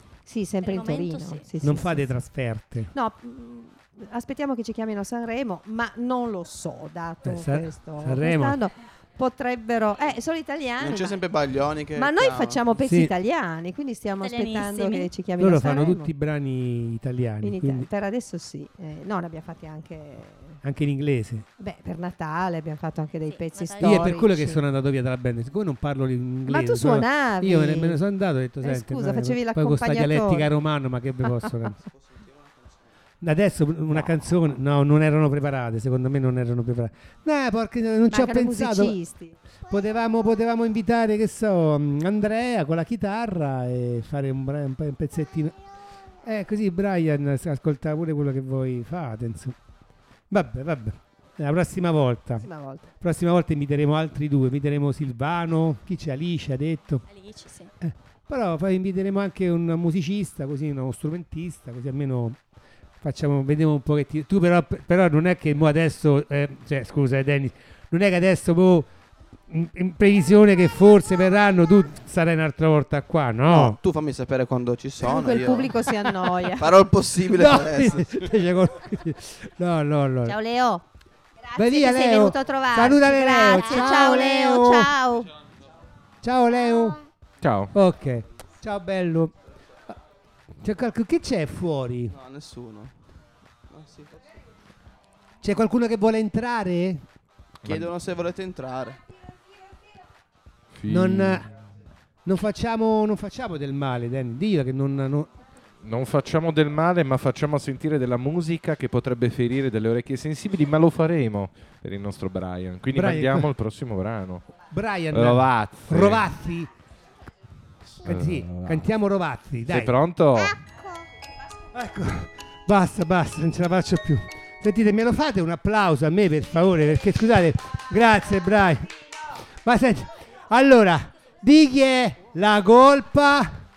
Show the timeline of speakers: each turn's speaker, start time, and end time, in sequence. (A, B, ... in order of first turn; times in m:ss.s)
0:00.3-0:02.1 A
0:00.6-0:01.5 B
0:01.6-0:02.9 C
0:02.9-0:11.2 A
0:07.2-0:08.6 C
0:10.8-0:12.6 D
0:12.0-0:16.1 A
0:12.8-0:13.1 C
0:14.2-0:15.1 B
0:15.4-0:17.9 C
0:17.4-0:20.6 A
0:20.6-0:21.5 C
0:21.6-0:24.6 A
0:23.3-0:24.2 B
0:23.8-0:31.8 C
0:26.5-0:28.0 A
0:28.6-0:30.5 A
0:32.2-0:32.4 D
0:33.2-0:39.0 C
0:38.1-0:39.4 A
0:39.7-0:45.6 C
0:46.2-0:49.6 C
0:50.3-0:57.0 C
0:52.4-0:52.9 A
0:57.1-0:57.7 B
0:57.8-1:02.4 C
1:03.0-1:08.9 C
1:09.5-1:13.8 C
1:13.5-1:15.8 D
1:15.0-1:16.7 A
1:16.6-1:18.3 D
1:17.2-1:20.4 C
1:20.2-1:20.8 A
1:21.4-1:25.3 A
1:21.6-1:24.9 C
1:26.2-1:27.0 C
1:27.4-1:27.7 E
1:27.7-1:29.3 C
1:30.6-1:32.2 C
1:32.1-1:32.9 D
1:33.7-1:34.3 D
1:35.4-1:37.1 C
1:37.6-1:38.0 E
1:37.6-1:39.0 D
1:40.7-1:41.5 E
1:40.9-1:41.5 C
1:42.2-1:45.3 C
1:45.8-1:54.5 E
1:52.9-1:53.5 C
1:54.7-1:56.7 C
1:55.1-1:56.3 E
1:58.0-1:58.9 E
1:58.0-2:00.0 C
1:59.7-2:00.6 E
2:01.7-2:08.9 C
2:09.6-2:13.6 C